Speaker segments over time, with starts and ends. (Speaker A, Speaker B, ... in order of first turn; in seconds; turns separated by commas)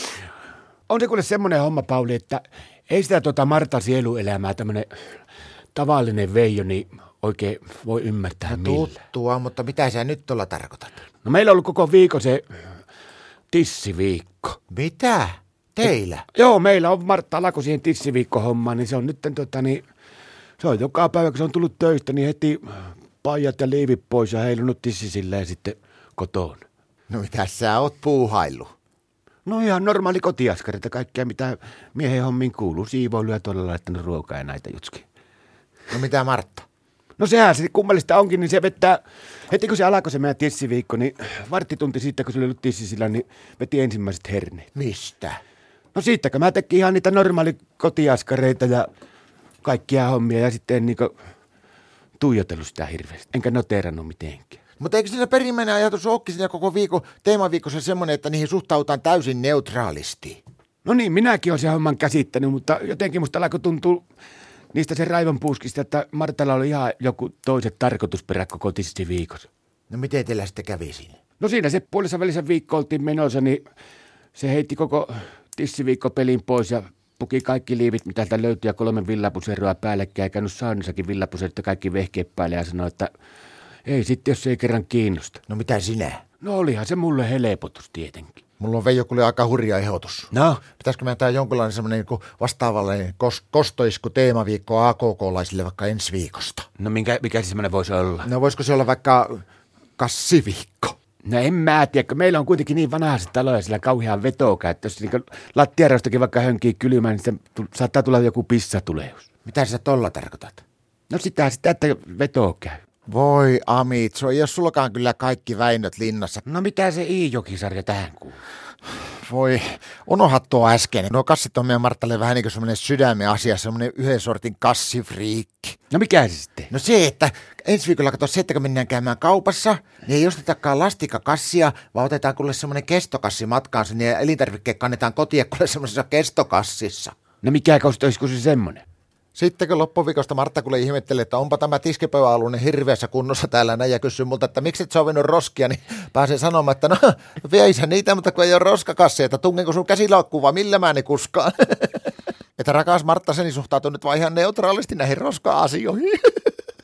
Speaker A: 0.9-4.9, Speaker A: 5.8-8.9, Speaker B: 8.5-11.0, Speaker A: 11.2-12.4, Speaker A: 13.5-14.6, Speaker B: 14.7-16.3, Speaker A: 16.3-19.8, Speaker A: 20.6-26.6, Speaker B: 27.1-28.7, Speaker A: 29.5-35.0, Speaker B: 35.9-36.6, Speaker A: 37.2-44.7, Speaker B: 44.7-45.4, Speaker A: 45.9-48.9, Speaker A: 49.6-51.1, Speaker A: 52.2-54.6, Speaker B: 54.8-60.4, Speaker A: 60.8-64.0, Speaker A: 64.7-69.5, Speaker B: 69.9-71.2, Speaker A: 71.4-73.6, Speaker A: 74.4-83.1, Speaker A: 83.9-85.4, Speaker B: 85.5-86.2, Speaker A: 86.4-88.4, Speaker B: 88.6-96.7, Speaker A: 90.3-90.6, Speaker A: 96.8-98.3, Speaker B: 98.2-99.4, Speaker B: 100.0-101.0, Speaker A: 101.2-109.3, Speaker B: 109.5-110.6, Speaker A: 111.1-112.8, Speaker B: 113.1-116.4, Speaker A: 116.5-118.4, Speaker B: 119.1-125.8, Speaker A: 125.9-126.7, Speaker B: 126.7-137.2, Speaker A: 137.4-138.8, Speaker B: 139.3-156.5